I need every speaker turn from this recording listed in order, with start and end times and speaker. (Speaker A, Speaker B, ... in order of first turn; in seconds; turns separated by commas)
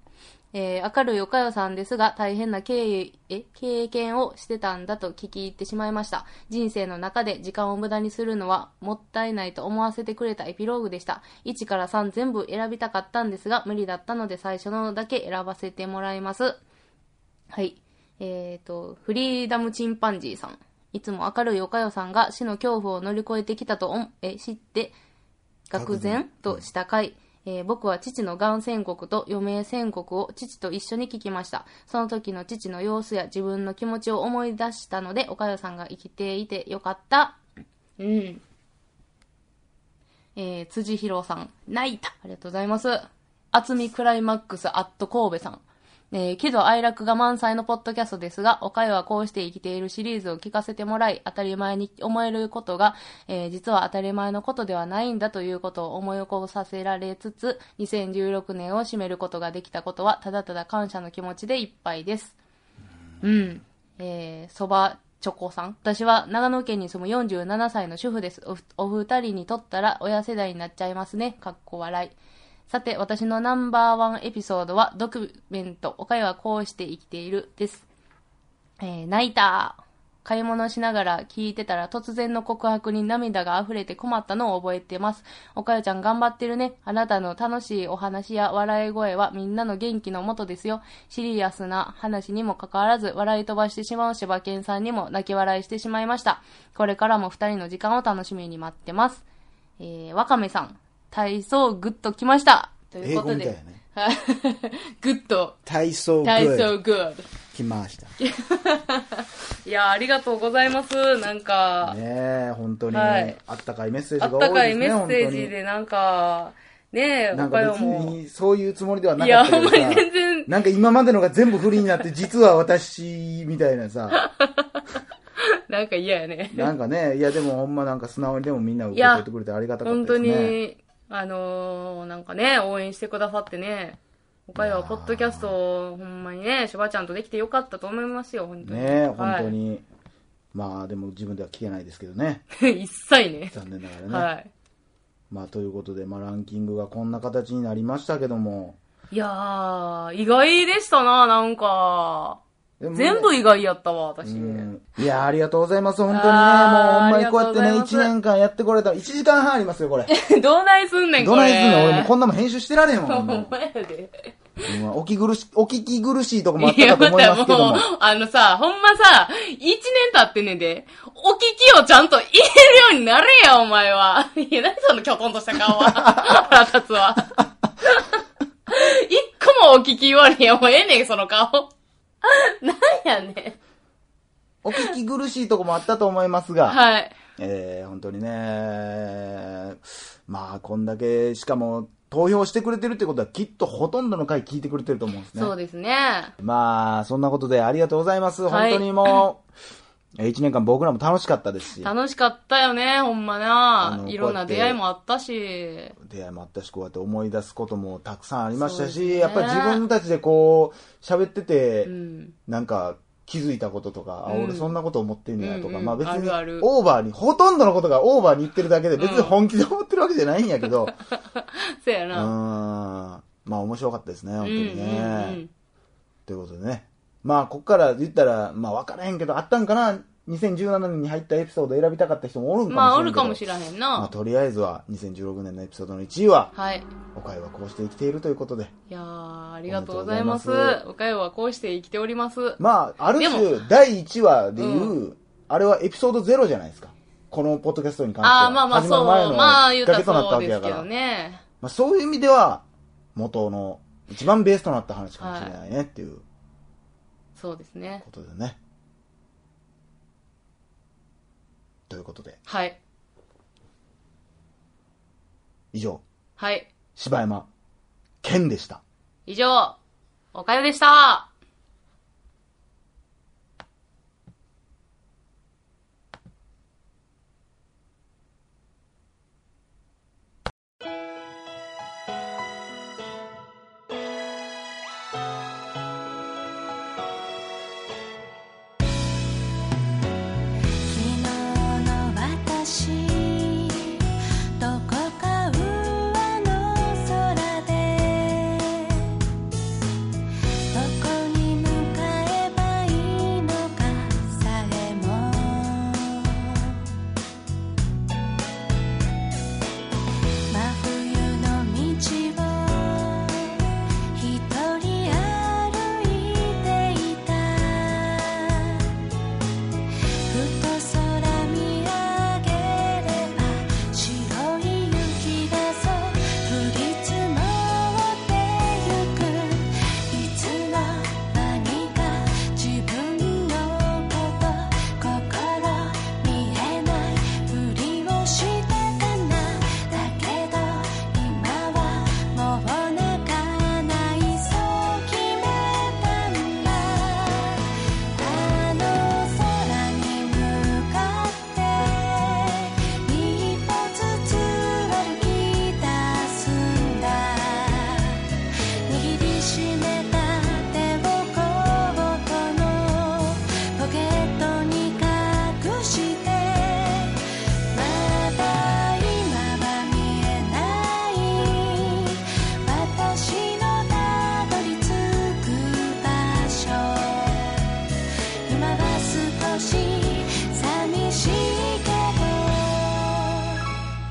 Speaker A: 0.5-16.6, Speaker A: 17.5-24.9, Speaker A: 25.7-37.4, Speaker B: 25.7-26.6, Speaker A: 38.0-38.4, Speaker A: 40.4-62.4, Speaker A: 63.2-72.2, Speaker A: 72.7-77.8, Speaker A: 78.8-99.2, Speaker A: 99.8-105.6, Speaker B: 103.0-103.8, Speaker B: 105.7-106.7, Speaker A: 106.2-107.3, Speaker B: 107.5-108.1, Speaker A: 108.2-112.0, Speaker B: 111.8-115.5, Speaker A: 112.9-113.4, Speaker A: 114.2-118.2, Speaker B: 117.3-124.2, Speaker A: 119.2-120.5, Speaker A: 124.1-124.8, Speaker A: 125.4-126.7, Speaker B: 126.5-130.6, Speaker A: 128.9-129.2, Speaker A: 129.8-139.5, Speaker B: 134.6-135.5, Speaker B: 138.6-139.8, Speaker B: 140.5-142.4, Speaker A: 142.5-144.5, Speaker B: 143.5-144.3, Speaker B: 145.3-148.8, Speaker A: 149.1-152.4, Speaker B: 152.8-153.3, Speaker A: 152.9-154.7, Speaker B: 154.2-160.1, Speaker A: 156.1-158.1, Speaker A: 160.1-162.1, Speaker B: 161.2-163.5, Speaker A: 163.0-164.3, Speaker B: 164.7-167.9, Speaker A: 166.6-181.7, Speaker B: 176.0-176.2, Speaker A: 182.2-183.6, Speaker B: 184.6-186.8, Speaker A: 186.7-187.2, Speaker B: 187.3-195.5, Speaker A: 195.3-196.3, Speaker B: 196.4-199.4, Speaker A: 198.5-199.2, Speaker B: 200.2-201.9, Speaker A: 201.8-205.9, Speaker B: 203.8-204.8, Speaker B: 206.0-211.9, Speaker A: 208.5-209.8, Speaker A: 211.8-212.3, Speaker B: 212.4-220.9, Speaker A: 214.3-214.7, Speaker A: 215.4-216.7, Speaker A: 219.0-219.3, Speaker A: 220.9-222.3, Speaker B: 222.1-225.4, Speaker A: 224.4-225.5, Speaker B: 226.3-233.4, Speaker A: 232.7-234.1, Speaker B: 233.9-236.5, Speaker A: 236.5-236.9, Speaker B: 237.1-238.7, Speaker A: 238.9-242.6, Speaker B: 239.7-240.8, Speaker B: 242.6-250.9, Speaker A: 243.2-243.6, Speaker A: 244.6-244.9, Speaker A: 248.2-251.4, Speaker B: 251.6-252.6, Speaker B: 253.1-256.2, Speaker A: 255.2-255.6, Speaker A: 257.3-258.0, Speaker B: 258.0-258.6, Speaker B: 261.9-262.4, Speaker A: 262.4-262.8, Speaker B: 265.7-266.0, Speaker A: 266.4-266.7, Speaker B: 266.9-267.5, Speaker B: 268.2-268.8, Speaker A: 269.3-269.8, Speaker A: 270.3-271.3, Speaker C: 290.8-294.0, Speaker C: 294.6-299.2, Speaker C: 300.7-306.9, Speaker C: 310.5-318.9, Speaker C: 320.3-377.6, Speaker C: 378.5-383.7